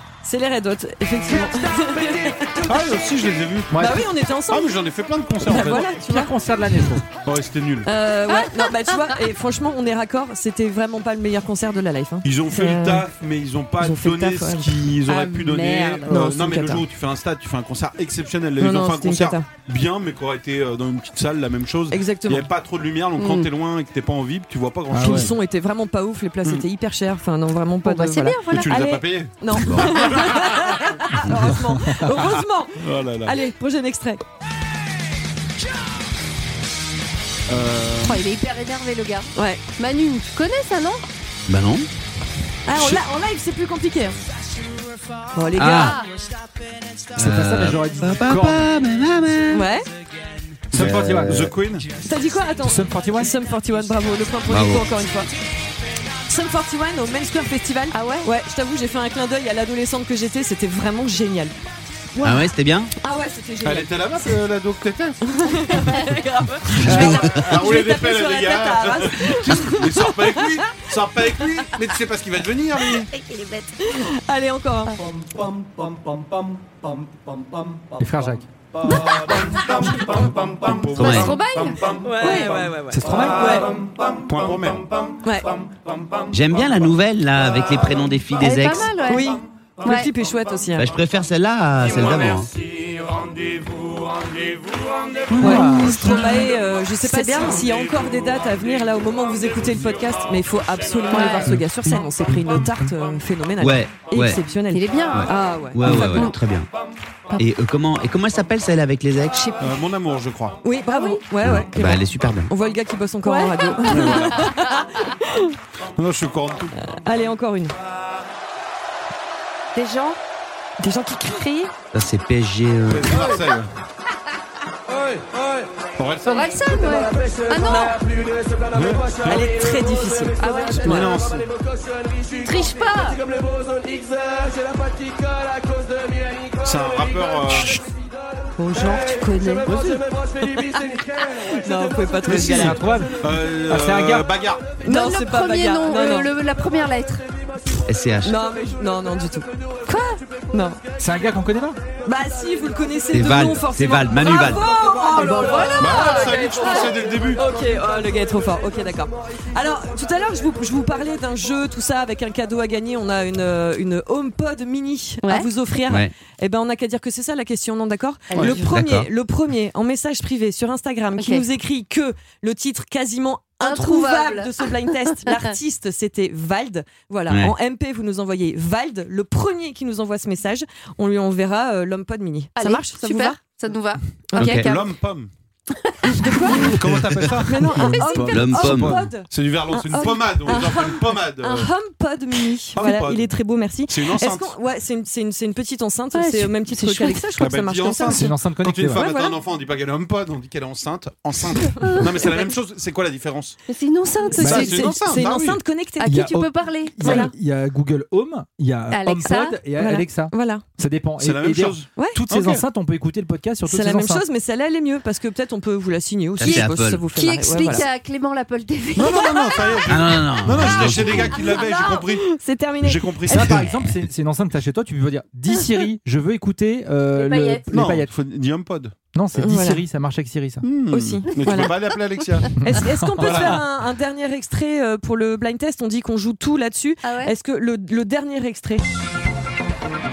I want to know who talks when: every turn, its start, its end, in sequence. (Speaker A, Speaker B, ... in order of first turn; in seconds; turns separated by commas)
Speaker A: 0.2-2.7, Speaker B: 2.6-3.9, Speaker C: 3.7-4.0, Speaker A: 3.8-4.7, Speaker B: 4.5-6.0, Speaker A: 5.4-6.3, Speaker C: 6.0-7.0, Speaker B: 7.2-7.9, Speaker A: 7.8-13.1, Speaker D: 8.3-9.2, Speaker B: 12.2-25.3, Speaker A: 13.8-16.3, Speaker D: 15.1-16.7, Speaker A: 18.6-19.5, Speaker A: 21.9-22.5, Speaker D: 23.2-23.5, Speaker C: 24.9-25.3, Speaker A: 25.0-34.2, Speaker D: 27.8-28.8, Speaker B: 28.5-30.9, Speaker E: 29.6-29.9, Speaker C: 31.5-31.8, Speaker B: 32.1-33.4, Speaker B: 37.5-38.2, Speaker D: 38.0-41.0, Speaker A: 39.3-39.6, Speaker E: 41.5-41.9, Speaker A: 42.6-44.2, Speaker B: 42.8-43.0, Speaker A: 45.3-46.0, Speaker E: 45.5-46.0, Speaker D: 45.6-46.1, Speaker E: 47.1-49.7, Speaker C: 47.1-48.6, Speaker A: 49.5-49.9, Speaker C: 50.7-51.5, Speaker E: 50.7-51.4, Speaker B: 50.7-51.9, Speaker A: 52.0-55.3, Speaker C: 52.6-53.3, Speaker E: 54.5-54.9, Speaker A: 56.3-61.5, Speaker D: 57.9-58.3, Speaker E: 62.2-62.9, Speaker A: 63.0-64.4, Speaker B: 63.6-65.3, Speaker A: 65.3-70.8, Speaker B: 66.8-73.1, Speaker E: 66.8-67.4, Speaker D: 73.1-73.8, Speaker A: 73.8-75.0, Speaker C: 78.0-78.5, Speaker D: 78.8-80.2, Speaker B: 80.6-81.4, Speaker E: 80.7-81.4, Speaker D: 81.0-82.5, Speaker A: 82.0-83.7, Speaker C: 82.9-83.6, Speaker B: 84.2-85.0, Speaker A: 85.2-85.5, Speaker E: 86.3-88.9, Speaker D: 88.4-90.1, Speaker A: 89.1-90.9, Speaker E: 90.8-92.5, Speaker C: 95.3-96.2, Speaker D: 95.4-97.6, Speaker A: 95.4-106.3, Speaker D: 101.1-101.5, Speaker E: 103.6-104.4, Speaker D: 104.7-105.3, Speaker E: 105.1-106.7, Speaker D: 105.9-106.3, Speaker E: 107.4-109.4, Speaker D: 109.3-109.8, Speaker B: 109.6-110.6, Speaker A: 110.6-115.5, Speaker D: 111.0-111.2, Speaker E: 111.4-112.5, Speaker D: 113.2-115.0, Speaker B: 113.9-114.5, Speaker B: 116.0-116.7, Speaker A: 116.8-117.7, Speaker D: 119.7-120.2, Speaker A: 120.8-121.7, Speaker E: 121.9-123.3, Speaker B: 122.9-123.7, Speaker B: 126.0-126.5, Speaker D: 126.2-128.0, Speaker B: 128.7-129.6, Speaker A: 129.2-131.1, Speaker D: 130.4-131.0, Speaker B: 130.8-131.5, Speaker D: 132.2-133.2, Speaker B: 136.6-137.8, Speaker D: 138.6-139.7, Speaker A: 138.7-139.1, Speaker C: 139.7-140.0, Speaker A: 140.4-142.8, Speaker C: 142.2-144.3, Speaker B: 143.2-144.8, Speaker A: 144.8-146.3, Speaker D: 144.8-147.2, Speaker E: 147.8-148.4, Speaker A: 148.2-149.5, Speaker D: 149.9-150.2, Speaker A: 150.5-150.8, Speaker C: 151.0-151.8, Speaker A: 152.0-183.4, Speaker E: 153.1-154.7, Speaker D: 155.1-157.0, Speaker B: 155.6-157.4, Speaker D: 168.3-168.6, Speaker E: 168.4-169.1, Speaker D: 171.2-171.4, Speaker D: 173.6-174.7, Speaker E: 177.3-177.5, Speaker D: 182.6-184.9, Speaker A: 184.3-184.6, Speaker E: 184.3-184.7, Speaker B: 184.6-185.3, Speaker D: 185.8-186.8, Speaker A: 186.1-186.7, Speaker B: 186.7-191.7, Speaker E: 186.9-189.1, Speaker A: 187.4-198.3, Speaker D: 187.8-188.6, Speaker B: 192.7-193.3, Speaker B: 193.9-194.5, Speaker D: 196.1-197.3, Speaker B: 197.4-203.6, Speaker C: 198.1-199.0, Speaker A: 198.9-199.4, Speaker D: 201.8-202.3, Speaker D: 203.7-205.3, Speaker B: 204.3-205.6, Speaker A: 204.3-206.1, Speaker D: 206.0-207.3, Speaker C: 206.0-214.2, Speaker A: 207.0-207.3, Speaker D: 208.9-209.6, Speaker A: 209.8-210.6, Speaker B: 211.2-212.6, Speaker A: 213.7-217.8, Speaker E: 216.4-217.1, Speaker D: 216.4-219.9, Speaker B: 218.9-222.2, Speaker E: 219.9-221.4, Speaker D: 220.8-222.0, Speaker A: 221.6-223.6, Speaker B: 222.8-223.7, Speaker C: 223.3-228.1, Speaker D: 227.1-227.6, Speaker B: 227.7-228.9, Speaker C: 229.1-230.6, Speaker A: 229.4-229.8, Speaker B: 230.6-232.6, Speaker A: 230.9-231.7, Speaker C: 232.6-233.6, Speaker A: 232.6-238.8, Speaker B: 233.1-233.6, Speaker D: 237.0-237.3